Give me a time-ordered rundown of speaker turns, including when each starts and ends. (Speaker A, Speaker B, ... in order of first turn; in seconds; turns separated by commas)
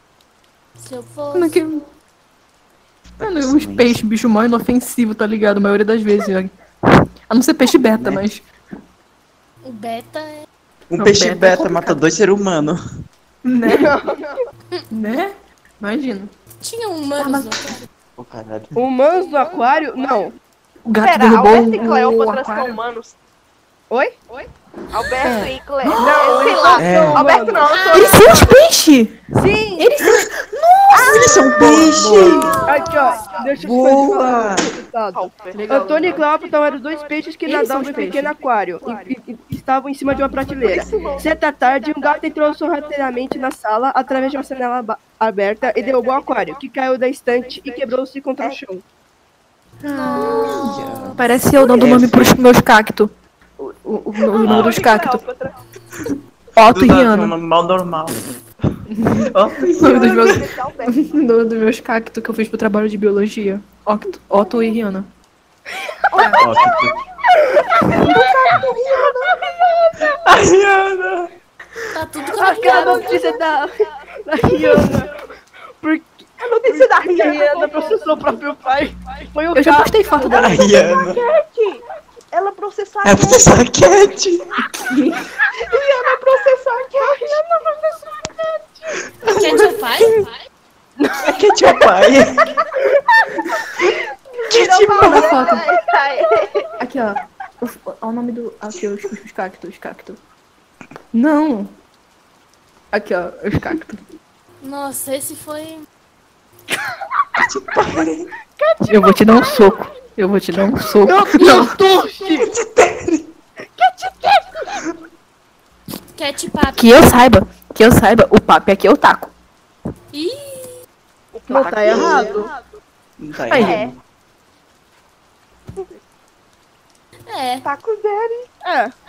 Speaker A: 0.8-1.7, Speaker B: 1.3-1.8, Speaker C: 3.2-4.0, Speaker B: 3.2-6.6, Speaker B: 7.3-8.5, Speaker C: 8.0-8.2, Speaker A: 9.6-10.5, Speaker C: 10.9-12.8, Speaker B: 11.0-12.0, Speaker B: 13.4-14.0, Speaker D: 13.7-14.4, Speaker B: 14.9-16.3, Speaker A: 16.6-17.8, Speaker B: 17.2-17.8, Speaker C: 18.2-18.8, Speaker D: 18.8-20.4, Speaker B: 20.9-22.8, Speaker E: 21.0-23.1, Speaker D: 23.9-24.2, Speaker E: 24.9-28.3, Speaker B: 25.2-26.7, Speaker D: 26.0-27.8, Speaker C: 26.8-27.3, Speaker A: 27.7-28.5, Speaker B: 27.9-29.2, Speaker D: 29.4-30.0, Speaker B: 29.8-32.7, Speaker C: 30.9-32.6, Speaker D: 32.6-48.8, Speaker E: 32.7-33.5, Speaker C: 33.6-34.7, Speaker E: 35.1-35.6, Speaker B: 35.5-36.2, Speaker B: 37.5-38.4, Speaker E: 40.5-41.3, Speaker E: 47.6-47.9, Speaker B: 49.8-55.2, Speaker A: 49.9-51.2, Speaker C: 50.5-52.5, Speaker E: 54.3-55.5, Speaker C: 54.4-54.8, Speaker C: 56.0-58.2, Speaker B: 56.6-57.4, Speaker B: 58.9-65.1, Speaker C: 59.1-60.5, Speaker E: 59.8-61.0, Speaker E: 66.1-66.8, Speaker B: 66.2-66.5, Speaker C: 66.4-67.0, Speaker E: 67.9-70.1, Speaker D: 67.9-68.3, Speaker C: 70.2-71.3, Speaker A: 71.9-73.2, Speaker D: 72.4-73.7, Speaker E: 72.4-73.4, Speaker D: 74.2-75.2, Speaker D: 75.8-80.5, Speaker E: 76.4-78.2, Speaker B: 79.5-80.7, Speaker C: 80.3-81.2, Speaker D: 81.1-81.8, Speaker E: 82.3-83.6, Speaker C: 83.0-84.6, Speaker B: 84.8-85.3, Speaker E: 85.5-87.4, Speaker D: 87.2-89.0, Speaker C: 89.2-89.7, Speaker A: 89.3-90.3, Speaker D: 91.0-91.3, Speaker C: 91.1-92.5, Speaker E: 93.8-96.7, Speaker C: 94.5-95.5, Speaker B: 94.9-95.7, Speaker B: 96.8-100.2, Speaker B: 101.1-101.7, Speaker B: 102.9-104.0, Speaker A: 104.6-105.8, Speaker C: 107.4-108.3, Speaker D: 108.6-109.7, Speaker B: 108.8-111.8, Speaker D: 111.0-112.5, Speaker C: 112.2-113.3, Speaker D: 113.8-114.7, Speaker A: 116.2-117.0, Speaker B: 116.8-119.3, Speaker A: 120.1-120.8, Speaker E: 121.3-122.5, Speaker D: 121.5-122.5, Speaker C: 121.9-122.2, Speaker C: 123.2-124.0, Speaker B: 123.5-123.8, Speaker E: 123.6-123.9, Speaker A: 127.3-127.7, Speaker E: 127.6-128.5, Speaker D: 128.6-129.0